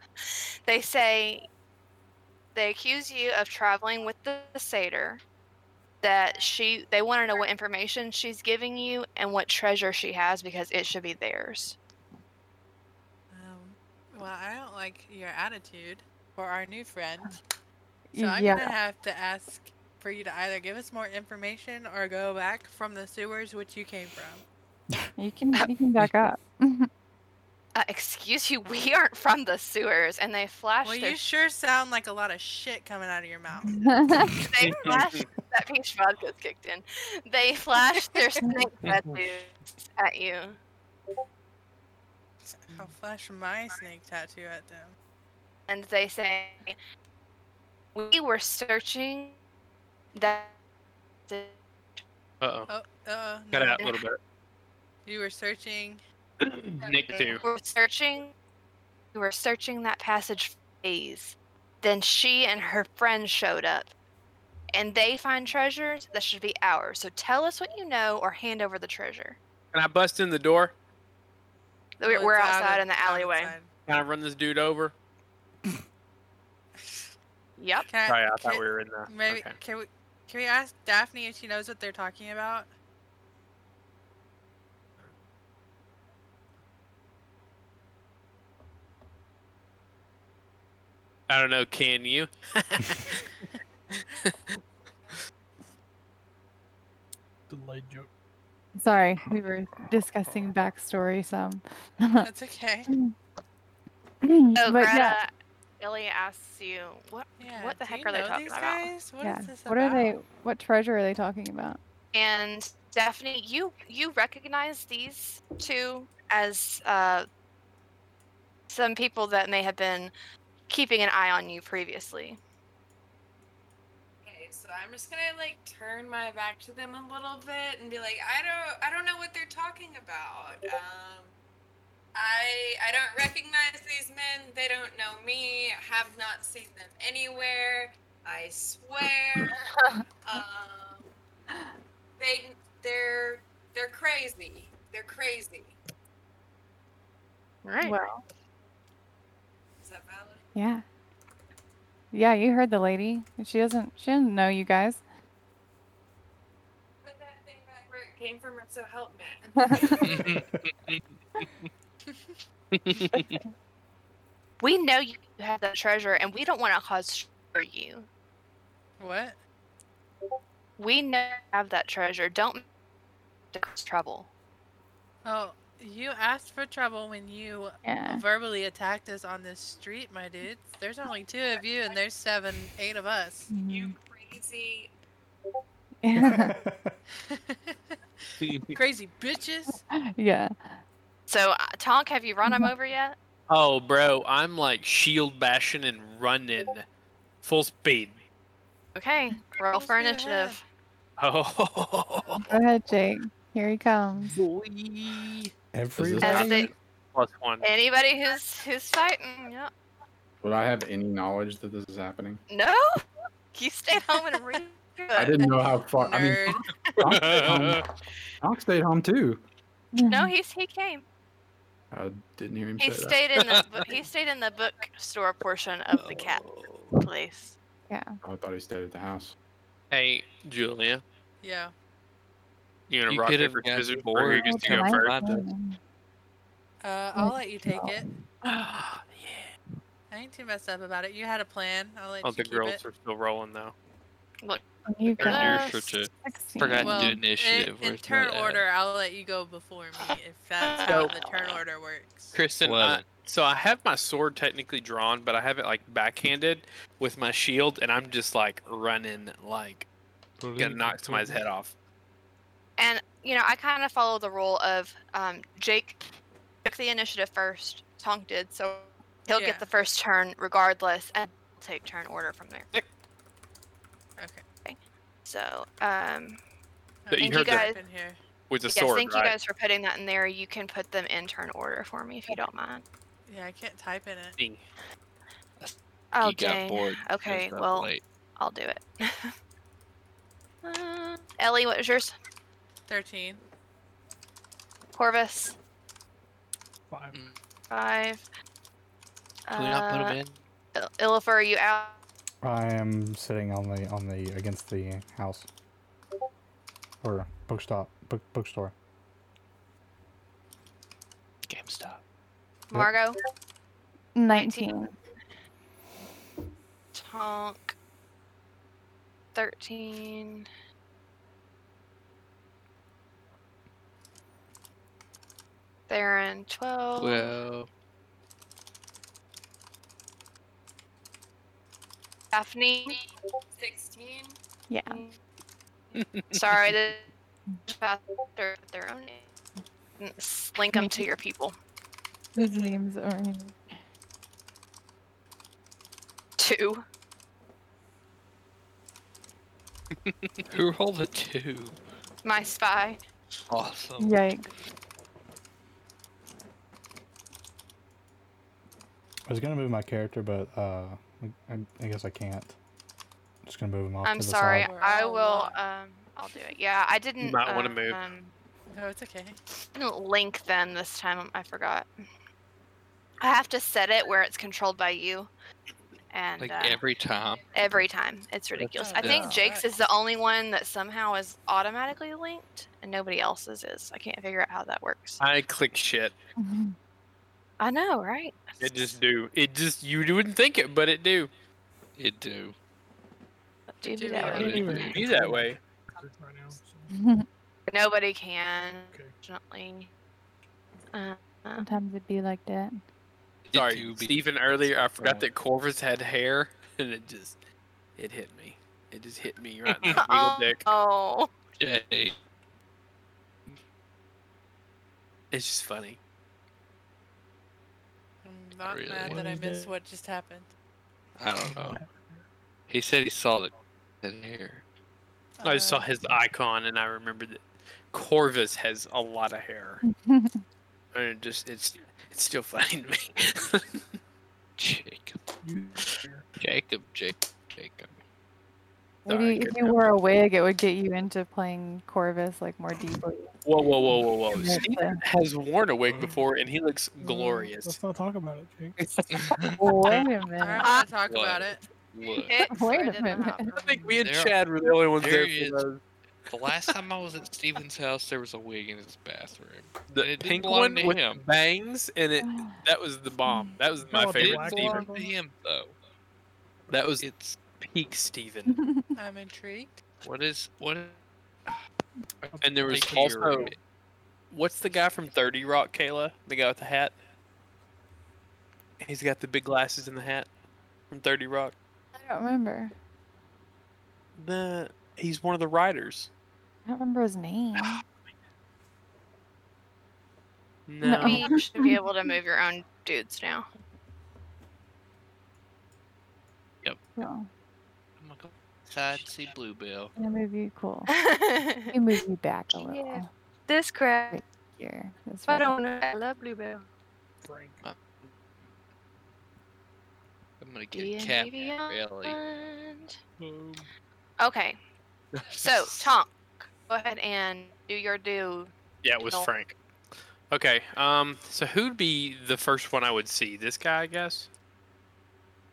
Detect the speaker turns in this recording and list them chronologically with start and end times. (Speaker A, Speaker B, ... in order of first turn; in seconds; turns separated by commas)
Speaker A: 0.2-1.5, Speaker A: 2.5-5.2, Speaker A: 6.0-11.8, Speaker B: 13.3-17.4, Speaker C: 18.1-18.7, Speaker B: 18.2-24.4, Speaker C: 25.2-26.9, Speaker A: 27.7-31.2, Speaker B: 30.8-34.0, Speaker C: 33.6-34.4, Speaker A: 34.4-40.6, Speaker D: 34.6-35.2, Speaker B: 42.5-44.9, Speaker A: 45.7-46.8, Speaker A: 47.9-49.4, Speaker A: 50.1-50.5, Speaker A: 51.3-52.0, Speaker D: 52.4-52.7, Speaker B: 52.7-53.9, Speaker D: 53.5-54.2, Speaker B: 55.0-56.0, Speaker D: 56.4-57.4, Speaker A: 57.4-58.3, Speaker A: 59.1-63.9, Speaker A: 64.7-69.4, Speaker D: 69.7-70.7, Speaker A: 72.0-73.5, Speaker B: 72.0-73.7, Speaker D: 73.8-74.9, Speaker B: 76.8-77.0, Speaker A: 77.6-77.9, Speaker B: 77.9-82.7, Speaker D: 78.0-79.6, Speaker D: 91.3-93.3, Speaker E: 97.5-98.1, Speaker C: 98.8-102.3, Speaker B: 102.2-102.9, Speaker C: 102.9-103.1, Speaker C: 104.2-105.2, Speaker A: 104.6-108.9, Speaker B: 107.4-110.1, Speaker C: 109.2-111.8, Speaker A: 112.1-117.3, Speaker A: 118.7-120.1, Speaker A: 120.7-122.4, Speaker F: 124.2-131.3, Speaker F: 132.1-139.7, Speaker F: 140.2-141.1, Speaker F: 142.2-145.8, Speaker A: 147.6-147.9, Speaker C: 147.8-148.2, Speaker F: 149.8-150.4, Speaker C: 150.5-150.8, Speaker C: 152.1-155.0, Speaker F: 157.0-160.3, Speaker C: 159.6-160.0, Speaker G: 160.0-161.7, Speaker B: 162.1-162.3, Speaker D: 162.7-163.4, Speaker C: 163.1-163.4, Speaker A: 164.6-168.1, Speaker B: 169.0-169.4, Speaker A: 170.8-172.6, Speaker A: 173.5-174.3, Speaker B: 175.2-183.5, Speaker C: 177.8-178.2, Speaker C: 183.5-183.9, Speaker F: 183.6-184.9, Speaker C: 186.0-186.6, Speaker H: 186.2-187.0, Speaker B: 187.2-189.8, Speaker D: 188.4-188.7, Speaker C: 189.7-190.8, Speaker A: 191.3-193.2, Speaker C: 192.4-192.7, Speaker D: 193.5-196.8, Speaker D: 197.4-198.2, Speaker A: 198.9-200.6, Speaker B: 199.7-200.6, Speaker D: 201.2-202.5, Speaker C: 202.4-204.3, Speaker D: 204.3-205.5, Speaker H: 205.7-206.7, Speaker I: 206.0-206.5, Speaker A: 206.2-206.7, Speaker D: 207.1-207.6, Speaker A: 207.6-209.7, Speaker I: 210.4-212.4, Speaker A: 212.5-213.0, Speaker A: 213.5-215.5, Speaker I: 215.2-217.8, Speaker B: 215.9-216.7, Speaker D: 217.0-217.8, Speaker I: 218.4-219.4, Speaker C: 219.9-220.3, Speaker A: 220.1-221.0, Speaker I: 221.9-223.2, Speaker A: 222.8-226.4, Speaker G: 223.4-223.7, Speaker G: 225.9-227.0, Speaker A: 226.9-227.5, Speaker C: 227.9-228.2, Speaker I: 228.2-229.3, Speaker D: 229.9-231.0, Speaker B: 231.4-231.7, Speaker D: 232.9-235.1, Speaker G: 233.1-235.4, Speaker C: 234.3-235.8, Speaker B: 236.8-238.1, Speaker C: 237.2-237.9, Speaker D: 238.4-239.5, Speaker B: 240.1-242.8, Speaker D: 242.2-243.7, Speaker C: 244.9-247.1, Speaker A: 245.2-245.8, Speaker G: 245.2-246.1, Speaker D: 245.3-245.6, Speaker D: 246.6-247.1, Speaker G: 246.6-248.7, Speaker B: 246.8-252.4, Speaker A: 250.6-251.6, Speaker D: 250.9-251.1, Speaker D: 252.3-259.9, Speaker G: 252.6-253.1, Speaker G: 260.4-261.4, Speaker D: 260.6-261.7, Speaker A: 262.8-266.0, Speaker A: 266.6-272.7, Speaker B: 269.3-269.7, Speaker B: 274.2-274.4, Speaker A: 274.6-276.4, Speaker B: 277.1-278.2, Speaker D: 277.1-277.7, Speaker A: 277.2-277.8, Speaker D: 278.5-279.3, Speaker A: 278.7-282.8, Speaker B: 283.3-284.4, Speaker D: 284.4-284.6, Speaker G: 285.6-288.0, Speaker A: 286.1-289.3, Speaker A: 290.6-292.1, Speaker B: 292.9-293.4, Speaker A: 294.9-295.6, Speaker E: 296.9-297.2, Speaker A: 297.7-298.2, Speaker A: 299.5-300.2, Speaker G: 299.5-300.4, Speaker A: 300.7-302.0, Speaker H: 302.4-305.5, Speaker H: 307.0-308.7, Speaker G: 311.5-312.0, Speaker A: 312.7-313.2, Speaker C: 314.1-314.9, Speaker A: 314.3-314.8, Speaker A: 316.9-317.7, Speaker A: 319.3-320.4, Speaker A: 325.9-327.4, Speaker G: 327.0-327.7, Speaker A: 332.3-333.0, Speaker F: 332.9-334.4, Speaker C: 334.7-335.0, Speaker D: 335.9-336.4, Speaker A: 336.3-337.1, Speaker A: 337.7-339.3, Speaker A: 340.0-341.5, Speaker C: 340.7-341.1, Speaker C: 342.3-343.6, Speaker A: 346.4-346.8, Speaker G: 350.5-351.8, Speaker A: 352.2-353.0, Speaker G: 353.5-354.1, Speaker C: 354.0-354.5, Speaker H: 359.2-362.5, Speaker H: 363.4-364.7, Speaker A: 364.0-368.3, Speaker B: 364.6-365.6, Speaker D: 367.2-368.0, Speaker B: 368.7-369.4, Speaker A: 369.7-371.9, Speaker A: 373.2-375.3, Speaker A: 376.1-376.8, Speaker G: 376.4-377.5, Speaker A: 377.5-385.2, Speaker G: 378.6-379.4, Speaker B: 378.8-379.6, Speaker D: 385.2-386.1, Speaker C: 386.4-386.7, Speaker A: 387.6-389.0, Speaker D: 388.6-391.3, Speaker G: 392.0-392.5, Speaker A: 393.7-394.9, Speaker B: 393.9-394.7, Speaker E: 394.1-396.9, Speaker G: 394.2-395.0, Speaker D: 394.5-395.6, Speaker C: 396.9-397.2, Speaker A: 397.7-399.9, Speaker E: 398.9-399.1, Speaker A: 400.9-401.6, Speaker C: 401.6-402.8, Speaker G: 403.4-405.3, Speaker D: 403.5-407.3, Speaker D: 408.0-410.6, Speaker G: 409.7-410.0, Speaker A: 409.9-411.3, Speaker G: 411.6-412.1, Speaker D: 415.3-416.0, Speaker B: 418.2-420.5, Speaker G: 418.6-419.2, Speaker E: 419.1-419.7, Speaker G: 421.2-421.8, Speaker E: 421.4-422.1, Speaker G: 422.7-424.6, Speaker B: 425.4-425.9, Speaker D: 425.4-429.8, Speaker C: 429.8-430.4, Speaker D: 430.9-433.8, Speaker G: 434.6-435.3, Speaker E: 435.4-436.2, Speaker G: 435.8-438.0, Speaker D: 439.1-439.8, Speaker C: 439.1-443.3, Speaker D: 443.4-447.8, Speaker C: 444.3-445.0, Speaker G: 445.9-446.2, Speaker C: 447.0-447.5, Speaker E: 447.6-448.8, Speaker D: 448.8-449.4, Speaker G: 449.1-449.6, Speaker C: 449.6-450.7, Speaker B: 450.4-451.6, Speaker G: 451.1-452.4, Speaker A: 452.2-453.8, Speaker C: 452.5-453.4, Speaker D: 453.5-455.8, Speaker G: 454.0-454.4, Speaker G: 455.0-455.7, Speaker G: 456.3-461.2, Speaker D: 459.9-464.9, Speaker C: 462.2-462.6, Speaker C: 463.2-463.5, Speaker E: 463.9-465.1, Speaker G: 463.9-465.8, Speaker D: 466.7-467.0, Speaker G: 467.0-467.4, Speaker D: 467.6-468.5, Speaker C: 468.5-468.9, Speaker B: 468.9-469.7, Speaker G: 470.0-471.0, Speaker G: 472.2-473.6, Speaker E: 472.3-473.2, Speaker D: 472.4-473.5, Speaker D: 474.3-476.9, Speaker D: 478.8-480.3, Speaker D: 480.9-481.5, Speaker C: 482.0-482.7, Speaker D: 484.2-486.1, Speaker C: 486.7-487.8, Speaker D: 490.7-491.3, Speaker C: 490.8-491.8, Speaker A: 491.0-493.4, Speaker C: 497.0-497.3, Speaker G: 498.0-499.9, Speaker C: 499.9-500.9, Speaker A: 500.9-501.7, Speaker C: 501.7-503.1, Speaker A: 503.5-504.2, Speaker C: 504.1-505.5, Speaker A: 505.3-506.0, Speaker F: 505.9-506.6, Speaker E: 507.2-507.6, Speaker G: 507.6-508.1, Speaker G: 510.4-512.2, Speaker A: 510.7-512.9, Speaker G: 513.2-513.6, Speaker A: 514.2-514.6, Speaker G: 515.1-516.0, Speaker A: 515.3-518.5, Speaker D: 518.8-519.5, Speaker D: 520.3-524.3